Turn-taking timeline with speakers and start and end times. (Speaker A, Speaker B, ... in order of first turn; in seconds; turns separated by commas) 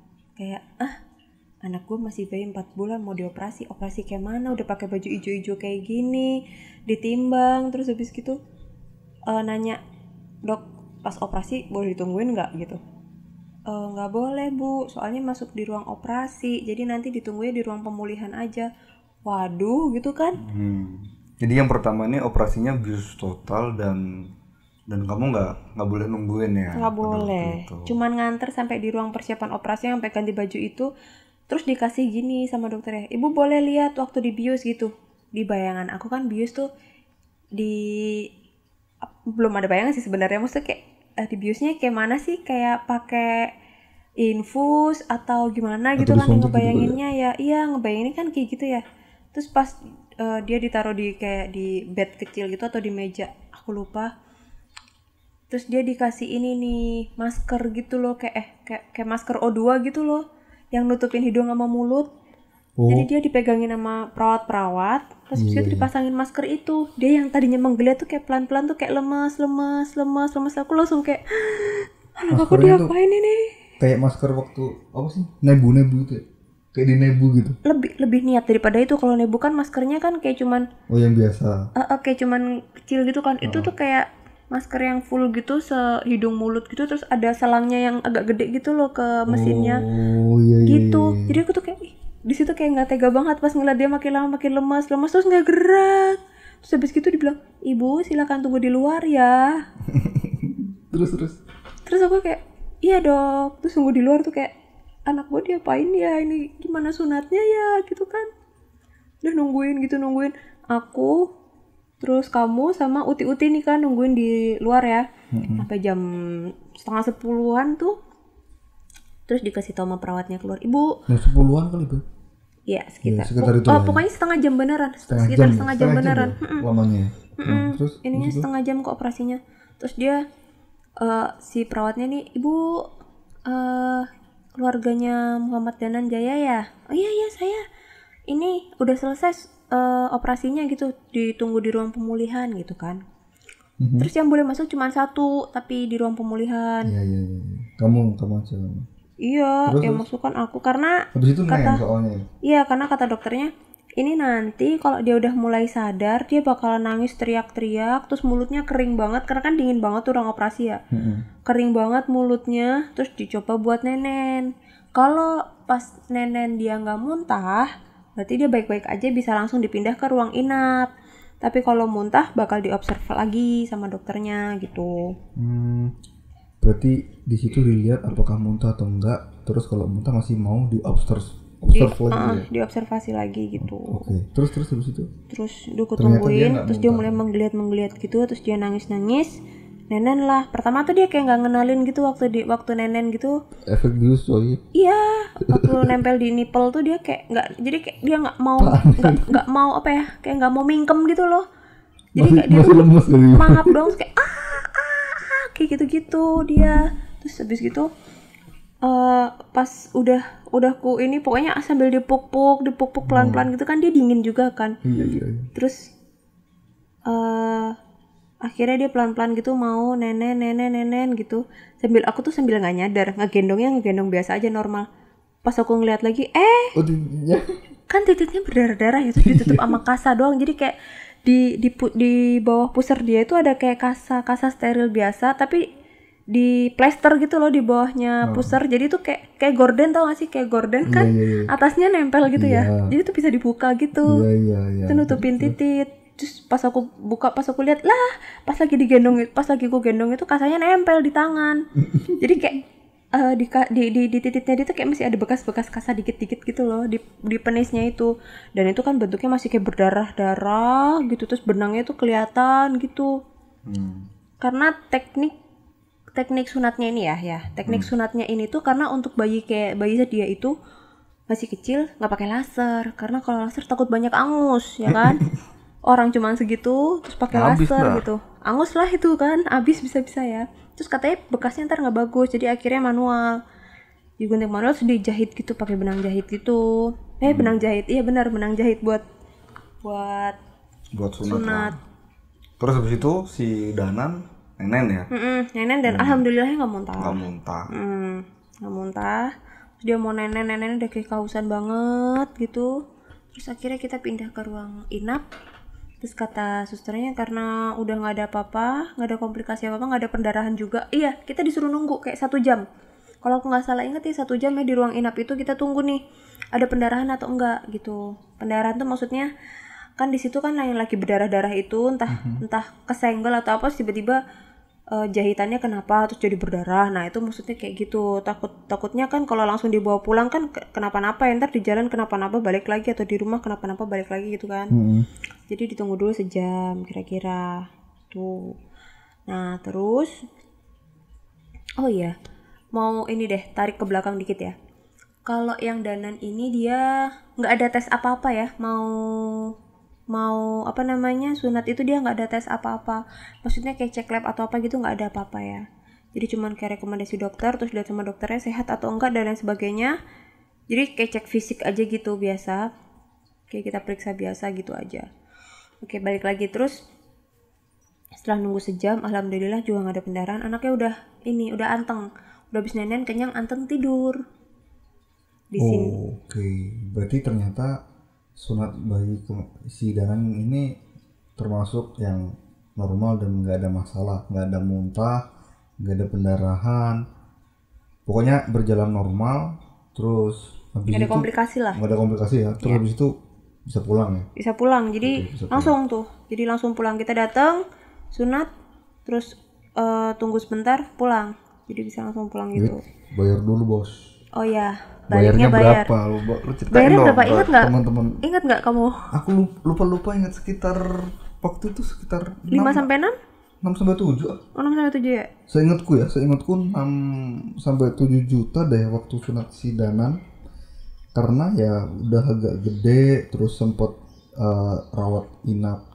Speaker A: 0.4-1.0, Speaker A: 1.6-8.4, Speaker A: 9.3-9.8, Speaker A: 10.5-12.8, Speaker A: 13.7-18.7, Speaker A: 19.3-20.4, Speaker B: 20.4-24.1, Speaker B: 24.9-28.0, Speaker A: 26.7-30.9, Speaker A: 31.5-36.7, Speaker A: 37.6-38.3, Speaker A: 39.1-43.5, Speaker A: 44.2-54.1, Speaker B: 46.0-47.0, Speaker A: 55.5-62.1, Speaker B: 62.8-63.1, Speaker A: 62.9-73.5, Speaker B: 65.3-65.9, Speaker B: 72.3-72.9, Speaker B: 73.8-77.6, Speaker A: 77.6-80.7, Speaker B: 80.9-81.7, Speaker A: 81.8-89.8, Speaker B: 83.4-83.7, Speaker B: 89.3-91.4, Speaker A: 90.7-99.5, Speaker B: 99.9-101.4, Speaker A: 101.8-104.5, Speaker A: 105.1-108.3, Speaker A: 109.2-111.3, Speaker A: 112.0-118.0, Speaker B: 115.3-115.7, Speaker A: 119.3-121.0, Speaker B: 121.1-122.0, Speaker A: 122.7-126.6, Speaker B: 123.0-124.0, Speaker B: 125.1-128.5, Speaker A: 127.4-130.2, Speaker A: 131.0-132.8, Speaker A: 133.5-137.6, Speaker A: 138.3-143.0, Speaker B: 143.8-144.1, Speaker A: 144.0-146.9, Speaker B: 146.8-148.9, Speaker A: 149.2-151.8, Speaker B: 149.7-150.1, Speaker B: 151.2-152.3, Speaker A: 152.4-160.8, Speaker B: 160.9-161.2, Speaker A: 161.4-170.9, Speaker A: 171.4-175.2, Speaker B: 175.4-175.9, Speaker B: 176.6-182.5, Speaker A: 181.7-184.1, Speaker B: 183.6-185.1, Speaker A: 185.3-193.4, Speaker B: 186.0-187.2, Speaker B: 193.7-194.6, Speaker A: 194.7-201.5, Speaker B: 195.4-195.9, Speaker B: 198.6-199.4, Speaker B: 202.2-203.8, Speaker A: 202.2-207.9, Speaker A: 208.8-214.8, Speaker B: 213.1-213.5, Speaker B: 214.8-215.5, Speaker A: 215.6-215.9, Speaker A: 217.1-217.8, Speaker A: 218.4-224.9, Speaker A: 225.4-226.7, Speaker B: 226.7-227.5, Speaker A: 227.9-235.7, Speaker B: 229.2-229.8, Speaker A: 236.3-244.2, Speaker B: 238.2-238.6, Speaker B: 240.8-241.5, Speaker B: 242.3-242.9, Speaker B: 244.0-245.6, Speaker A: 244.9-251.7, Speaker B: 251.8-252.2, Speaker A: 252.2-252.6, Speaker A: 253.2-263.2, Speaker B: 263.7-264.1, Speaker A: 264.4-265.3, Speaker A: 266.1-270.5, Speaker A: 271.3-275.2, Speaker B: 274.9-275.2, Speaker A: 275.9-283.4, Speaker B: 277.3-278.1, Speaker A: 284.2-289.0, Speaker B: 287.3-287.6, Speaker A: 289.8-290.4, Speaker B: 290.9-291.8, Speaker A: 291.2-291.7, Speaker B: 292.6-295.1, Speaker A: 295.1-302.8, Speaker B: 295.9-296.2, Speaker B: 297.0-297.7, Speaker A: 303.3-305.2, Speaker A: 306.0-312.6, Speaker A: 313.2-316.0, Speaker A: 316.6-319.3, Speaker A: 320.0-324.2, Speaker B: 322.1-322.4, Speaker A: 324.9-334.7, Speaker B: 334.7-335.1, Speaker A: 335.5-338.6, Speaker A: 339.3-340.2, Speaker A: 341.8-342.1, Speaker A: 342.7-344.6, Speaker A: 345.3-349.5, Speaker A: 350.1-359.9, Speaker A: 360.7-362.7, Speaker A: 363.5-365.1, Speaker A: 365.8-366.8, Speaker A: 368.2-374.2, Speaker A: 375.5-375.9, Speaker B: 375.6-377.8, Speaker B: 378.4-380.8, Speaker B: 381.4-385.2, Speaker B: 385.8-387.1, Speaker B: 388.1-393.1, Speaker A: 390.9-391.8, Speaker B: 393.7-394.3, Speaker A: 394.4-398.5, Speaker B: 395.0-395.8, Speaker A: 399.1-402.8, Speaker B: 402.6-404.0, Speaker A: 404.3-405.9, Speaker B: 405.1-408.2, Speaker A: 406.7-407.7, Speaker A: 408.2-409.1, Speaker B: 409.1-412.9, Speaker A: 412.5-413.2, Speaker B: 413.6-414.4, Speaker A: 414.6-415.3, Speaker B: 415.5-420.2, Speaker B: 421.1-425.8